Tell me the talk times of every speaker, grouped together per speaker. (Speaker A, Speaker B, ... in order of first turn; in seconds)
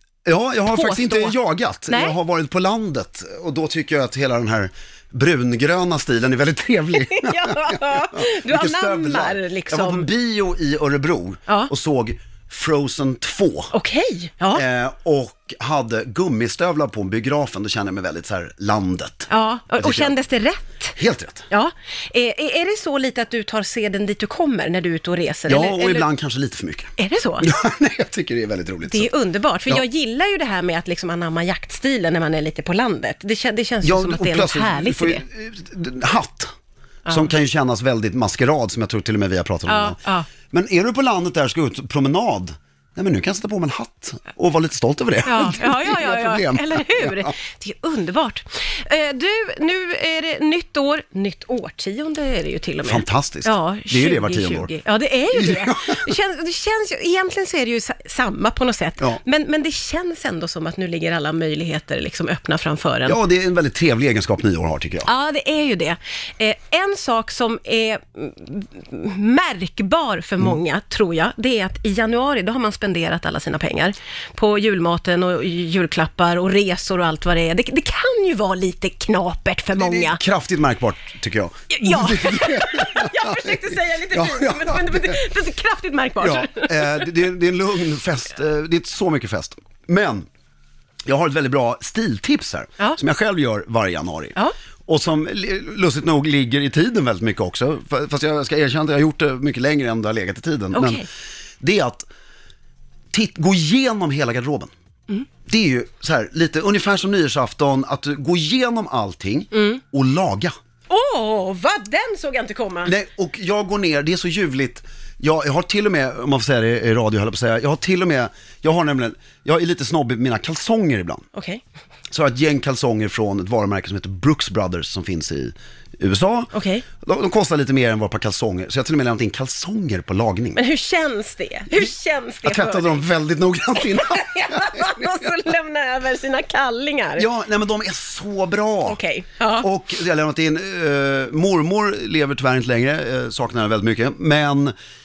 Speaker A: 0.2-13.7, 14.5-20.1, 21.0-21.5, 25.5-29.1, 33.8-36.5, 37.1-40.0, 40.5-47.3, 52.8-54.7, 55.3-56.0, 63.0-65.1, 79.7-85.2, 86.2-90.3, 91.0-94.3, 94.9-101.0, 101.6-102.0, 103.1-104.7, 105.5-110.5, 112.8-121.2, 122.1-130.6, 132.4-135.3, 137.2-139.0, 139.6-144.7
Speaker B: 0.7-1.3, 1.9-2.1, 7.0-10.1, 13.7-14.6, 19.3-20.9, 21.5-26.1, 27.0-27.5, 28.9-35.2, 39.7-40.3, 45.2-63.2, 65.0-80.2, 81.7-87.1, 100.7-101.0, 109.5-109.8, 110.9-112.9, 121.3-121.6, 126.5-126.8, 130.6-133.0, 133.8-137.3, 138.9-139.7